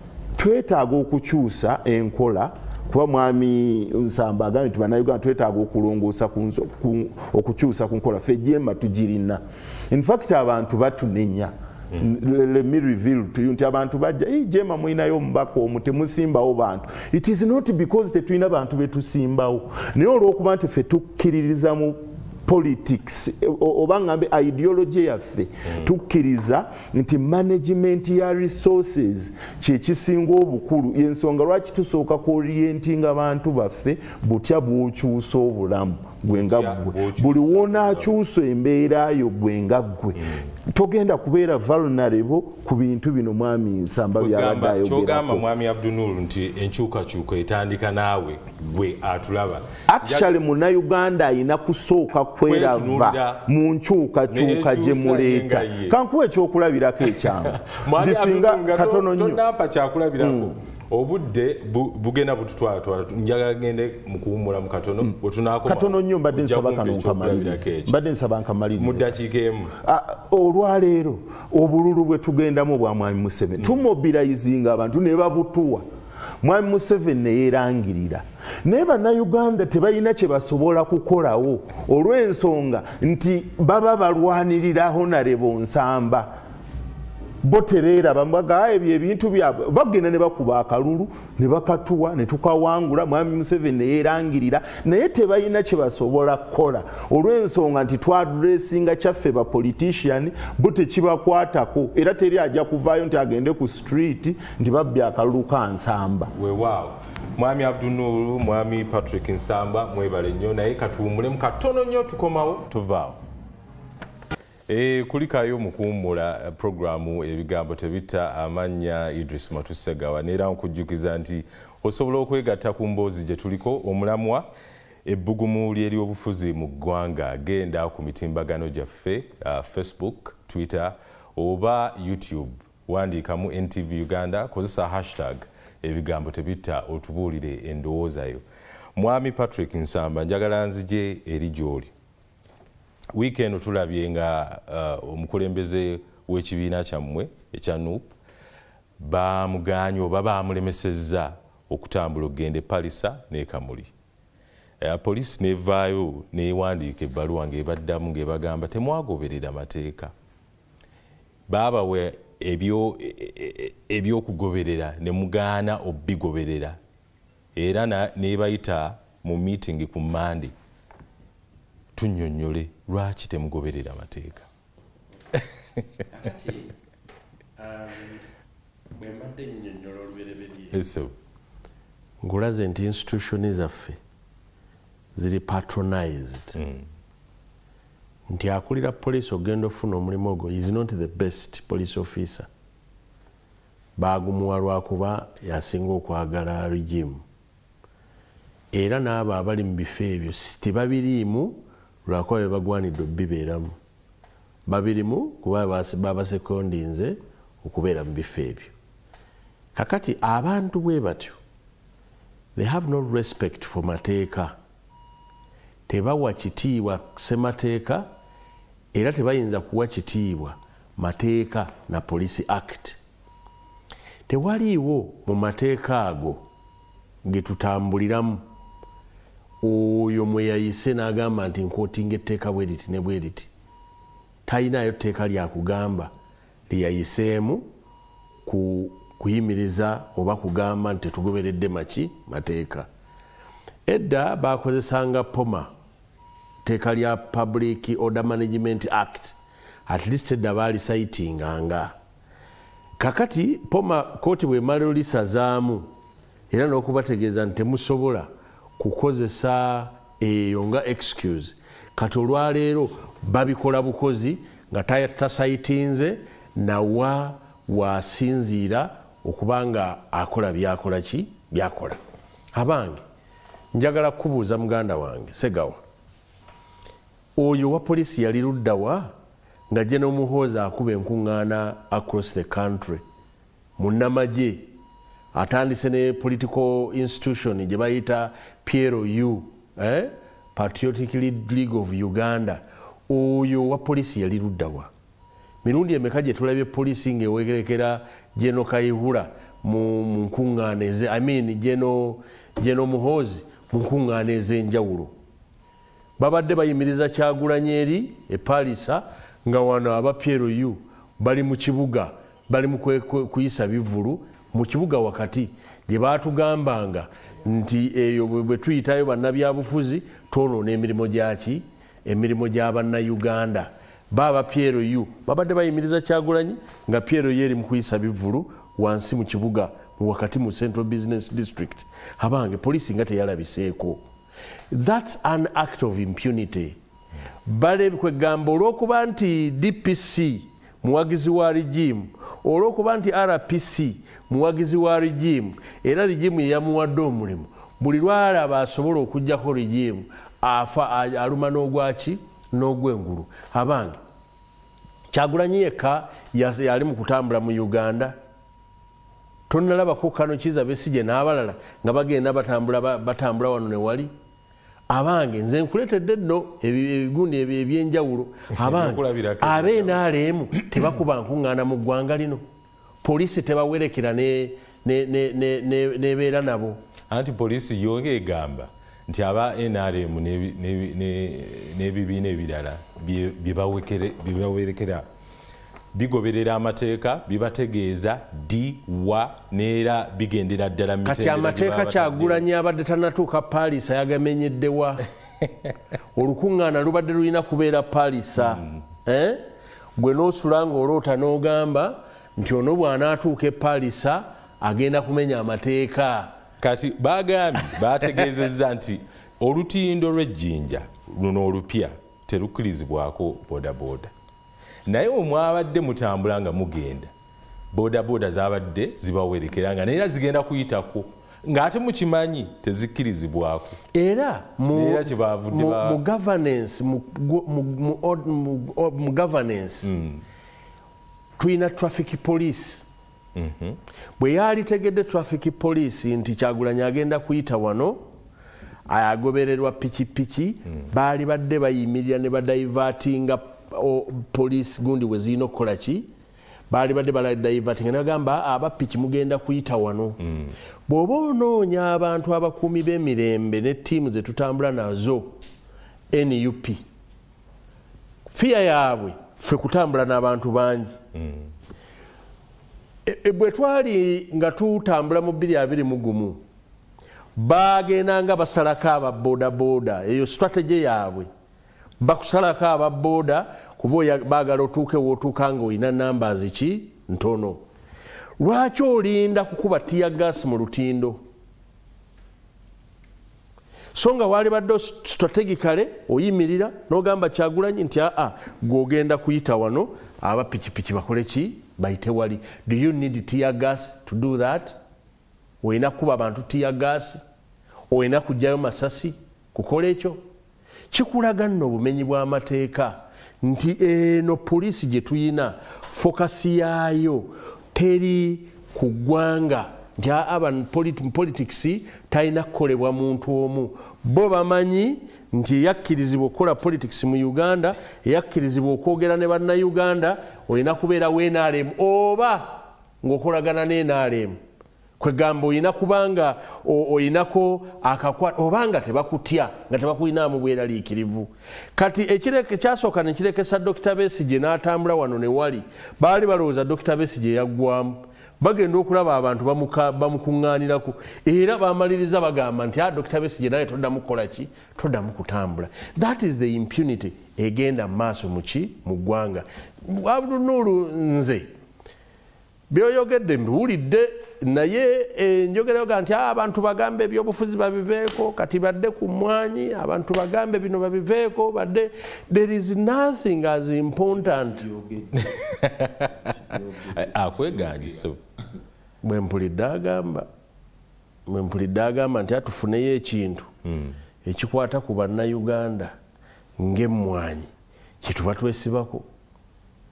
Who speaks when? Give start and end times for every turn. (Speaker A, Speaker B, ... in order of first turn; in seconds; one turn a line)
Speaker A: 0.4-45.4
Speaker B: 36.3-38.1
Speaker B: 44.1-50.3
Speaker A: 49.9-59.4
Speaker B: 52.4-53.4
Speaker B: 54.3-56.0
Speaker B: 57.1-67.9
Speaker A: 60.2-60.5
Speaker A: 65.6-69.2
Speaker B: 68.8-69.8
Speaker A: 69.8-75.8
Speaker A: 76.4-86.3
Speaker A: 87.4-106.3
Speaker B: 106.3-113.2
Speaker B: 114.7-124.5
Speaker B: 125.0-138.4
Speaker B: 138.9-141.9
Speaker B: 143.1-148.1
Speaker B: 149.0-153.9
Speaker B: 154.8-160.1
Speaker B: 161.5-166.8
Speaker B: 167.6-170.5
Speaker B: 171.9-174.5
Speaker C: 176.2-176.6
Speaker C: 177.6-178.2
Speaker C: 178.9-180.7
Speaker B: 180.7-181.1
Speaker C: 182.2-184.0
Speaker C: 185.2-186.5
Speaker B: 186.5-186.9
Speaker C: 188.3-192.5
Speaker C: 194.0-197.2
Speaker C: 198.7-203.8
Speaker C: 204.7-208.7
Speaker C: 209.8-211.4
Speaker C: 212.6-214.5
Speaker C: 215.9-218.1
Speaker C: 218.9-223.0
Speaker C: 224.3-226.4
Speaker C: 227.2-228.4
Speaker C: 229.6-233.5
Speaker C: 234.5-236.1
Speaker C: 236.7-237.6
Speaker C: 238.4-242.9
Speaker C: 243.9-245.7
Speaker C: 246.6-249.3
Speaker C: 249.9-251.9
Speaker C: 253.0-255.9
Speaker C: 256.5-272.0
Speaker C: 272.5-273.0
Speaker C: 273.7-275.8
Speaker C: 277.4-279.1
Speaker C: 279.7-283.0
Speaker C: 283.8-284.7
Speaker C: 285.3-294.9
Speaker C: 295.6-305.1
Speaker C: 306.2-334.0
Speaker C: 334.7-336.8
Speaker C: 337.5-354.0
Speaker C: 355.1-358.1
Speaker C: 359.5-364.1
Speaker C: 364.9-372.4
Speaker B: 368.5-370.0
Speaker C: 373.0-376.8
Speaker B: 377.1-385.1
Speaker B: 385.9-392.4
Speaker C: 391.0-395.1
Speaker C: 396.1-399.4
Speaker B: 398.4-398.8
Speaker C: 400.0-406.3
Speaker B: 406.6-414.1
Speaker B: 414.9-417.1
Speaker B: 417.7-423.8
Speaker C: 423.9-429.9
Speaker B: 424.7-426.0
Speaker B: 429.8-430.2
Speaker C: 431.4-432.9
Speaker B: 433.4-433.8
Speaker C: 434.2-438.0
Speaker C: 438.9-446.1
Speaker C: 446.7-450.2
Speaker C: 450.9-455.4
Speaker C: 456.1-456.8
Speaker C: 458.3-461.0
Speaker B: 461.1-461.5
Speaker C: 463.1-466.4
Speaker C: 467.4-471.3
Speaker C: 472.0-477.6
Speaker C: 478.4-481.2
Speaker C: 483.9-494.8
Speaker C: 495.6-497.2
Speaker C: 497.9-500.2
Speaker C: 500.9-524.4
Speaker C: 525.0-551.5
Speaker C: 552.7-564.6
Speaker A: 564.2-565.6
Speaker B: 565.2-566.3
Speaker A: 566.1-568.1
Speaker B: 566.9-568.2
Speaker C: 569.0-570.3
Speaker C: 571.3-573.5
Speaker B: 573.6-574.0
Speaker C: 574.2-575.9
Speaker C: 576.6-577.5
Speaker C: 578.0-579.1